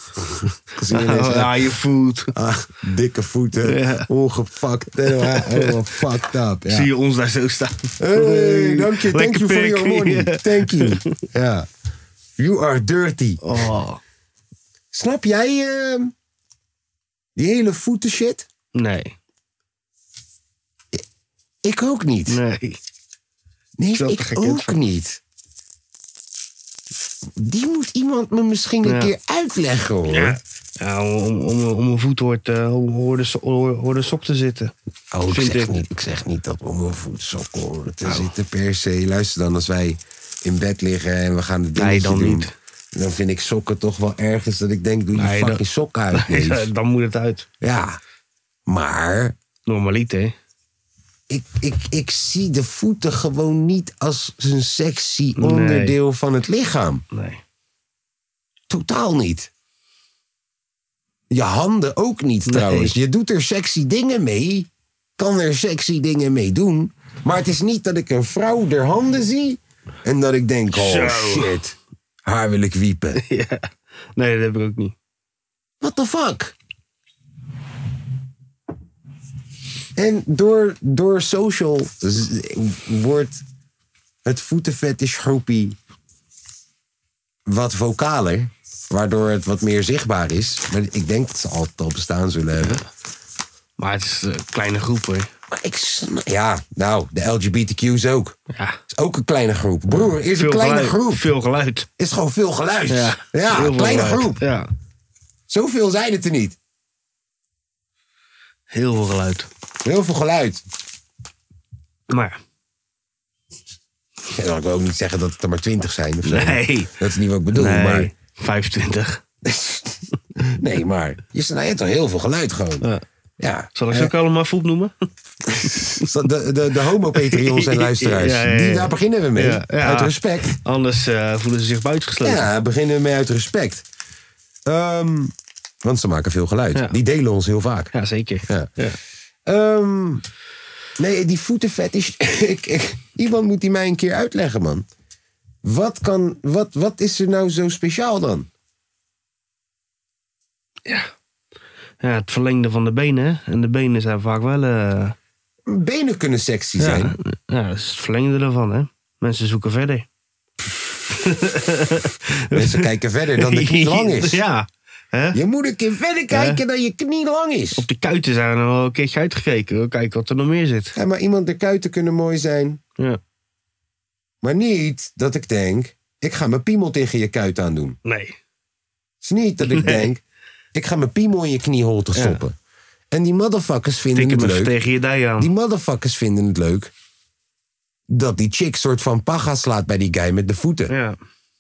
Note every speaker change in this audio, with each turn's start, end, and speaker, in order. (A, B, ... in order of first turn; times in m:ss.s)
0:00.7-0:01.7 A
0:00.9-0:02.3 B
0:02.3-0:06.9 A
0:03.6-0:04.1 B
0:05.1-0:06.0 B
0:06.7-0:11.1 B
0:08.0-0:11.7 A
0:12.4-0:13.4 A
0:13.4-0:14.0 B
0:14.9-0:16.1 A
0:17.4-0:18.5 A
0:18.8-0:19.2 B
0:21.6-0:22.4 A
0:22.3-0:22.8 B
0:23.8-0:25.2 A
0:24.0-0:24.8 B
0:27.4-0:30.4 A
0:28.8-0:29.1 B
0:30.1-0:34.7 B
0:35.1-0:46.7 A
0:35.3-0:35.8 B
0:41.8-0:42.5 B
0:45.2-0:47.5 B
0:47.6-0:48.0 A
0:48.7-0:49.4 A
0:49.7-0:50.4 B
0:51.3-0:57.0 A
0:55.4-0:56.0 B
0:57.1-0:57.4 B
0:58.7-0:59.5 A
1:01.3-1:13.2 A
1:02.5-1:03.0 B
1:10.7-1:11.5 B
1:13.2-1:15.0 B
1:15.8-1:16.6 A
1:20.0-1:23.4 A
1:24.2-1:25.8 A
1:27.5-1:32.8 A
1:32.6-1:32.8 B
1:33.8-1:35.3 B
1:35.5-1:38.4 A
1:38.5-1:38.8 B
1:38.9-1:41.3 A
1:40.0-1:41.9 B
1:42.0-1:44.4 A
1:42.9-1:44.7 B
1:45.5-1:46.6 A
1:48.7-1:49.5 B
1:49.8-1:50.6 A
1:52.1-1:52.4 B
1:54.3-1:58.1 A
1:56.2-1:56.9 B
1:57.5-1:59.2 B
1:59.4-2:02.9 A
2:03.4-2:04.1 A
2:03.8-2:04.9 B
2:05.5-2:10.6 A
2:05.6-2:06.1 B
2:07.1-2:12.5 B
2:12.2-2:13.9 A
2:14.7-2:17.9 A
2:17.9-2:19.0 B
2:18.4-2:18.7 A
2:19.5-2:20.2 A
2:21.0-2:24.9 A
2:25.6-2:28.5 A
2:30.9-2:31.1 B
2:32.0-2:35.2 B
2:35.7-2:37.2 A
2:36.8-2:40.1 B
2:41.1-2:45.4 B
2:42.5-2:44.4 A
2:45.3-2:47.9 A
2:46.3-2:46.6 B
2:47.8-2:51.0 B
2:51.0-2:52.8 A
2:54.4-2:58.0 A
2:58.0-2:58.4 B
2:59.2-3:00.2 A
2:59.7-3:00.0 B
3:00.7-3:02.6 A
3:02.2-3:02.4 B
3:03.1-3:04.8 A
3:04.1-3:05.5 B
3:05.4-3:06.9 A
3:08.1-3:10.9 A
3:10.9-3:11.2 B